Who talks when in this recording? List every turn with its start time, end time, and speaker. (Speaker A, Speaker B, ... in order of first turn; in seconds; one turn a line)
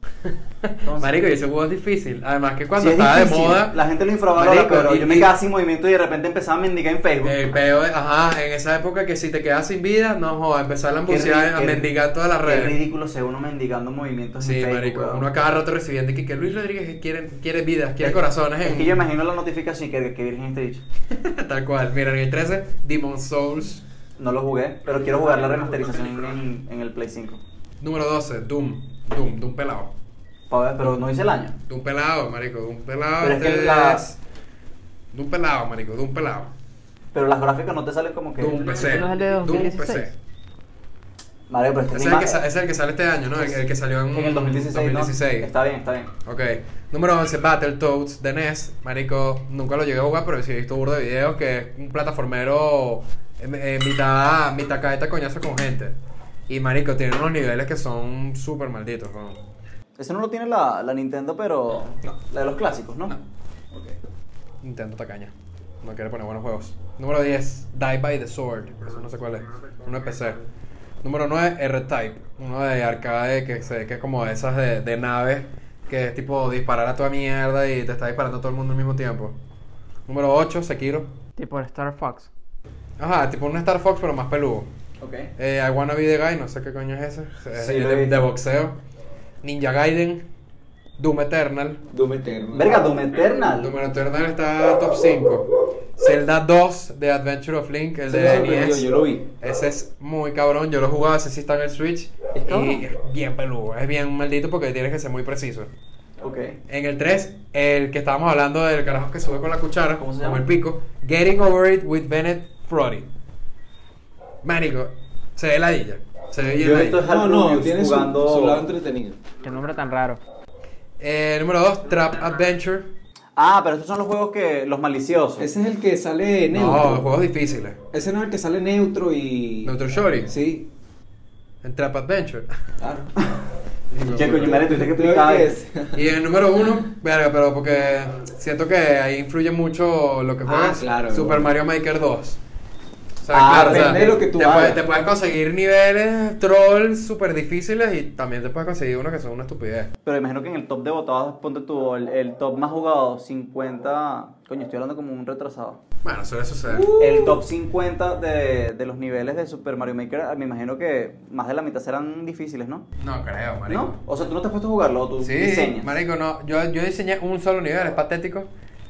Speaker A: 0.3-3.8
Speaker B: 0.8-1.2
Speaker B: 2.8-7.4
Speaker A: 4.4-5.3
Speaker A: 7.2-12.8
Speaker B: 11.1-11.9
Speaker B: 12.4-15.3
Speaker A: 14.4-19.0
Speaker B: 18.0-20.8
Speaker A: 21.1-23.8
Speaker B: 24.2-27.4
Speaker A: 27.8-29.9
Speaker B: 30.5-31.6
Speaker A: 31.7-34.2
Speaker B: 33.2-34.0
Speaker A: 35.1-36.5
Speaker B: 37.1-38.7
Speaker A: 38.4-40.1
Speaker C: 38.7-40.1
Speaker B: 41.5-42.4
Speaker A: 41.9-45.5
Speaker B: 43.3-46.1
Speaker A: 46.2-56.0
Speaker A: 56.5-59.4
Speaker B: 60.0-63.1
Speaker A: 64.6-70.4
Speaker A: 71.0-79.4
Speaker A: 80.1-81.1
Speaker C: 81.4-82.3
Speaker A: 83.0-84.7
Speaker B: 85.0-85.3
Speaker A: 85.4-88.8
Speaker B: 87.5-88.2
Speaker A: 89.4-90.3
Speaker A: 91.0-91.8
Speaker D: 91.9-93.0
Speaker B: 92.5-93.7
Speaker A: 93.6-98.8
Speaker D: 98.1-99.3
Speaker A: 99.4-105.7
Speaker B: 102.5-102.8
Speaker B: 106.2-106.6
Speaker A: 106.7-113.1
Speaker B: 110.0-110.4
Speaker A: 114.4-117.0
Speaker B: 116.5-118.6
Speaker D: 117.0-119.2
Speaker C: 119.4-120.2
Speaker A: 121.0-122.9
Speaker B: 123.4-125.5
Speaker D: 125.4-127.1
Speaker A: 126.5-127.8
Speaker D: 127.9-129.7
Speaker A: 129.7-130.3
Speaker D: 130.3-130.7
Speaker A: 131.6-132.6
Speaker D: 132.8-133.1
Speaker D: 133.9-136.2
Speaker A: 134.0-134.6
Speaker B: 134.1-135.6
Speaker A: 135.9-142.4
Speaker D: 140.4-141.5
Speaker A: 143.2-149.9
Speaker B: 143.3-144.2
Speaker D: 143.5-144.8
Speaker B: 150.1-155.8
Speaker A: 156.0-156.9
Speaker D: 156.7-157.4
Speaker B: 156.9-162.9
Speaker A: 163.0-164.0
Speaker B: 163.7-166.0
Speaker A: 165.2-168.5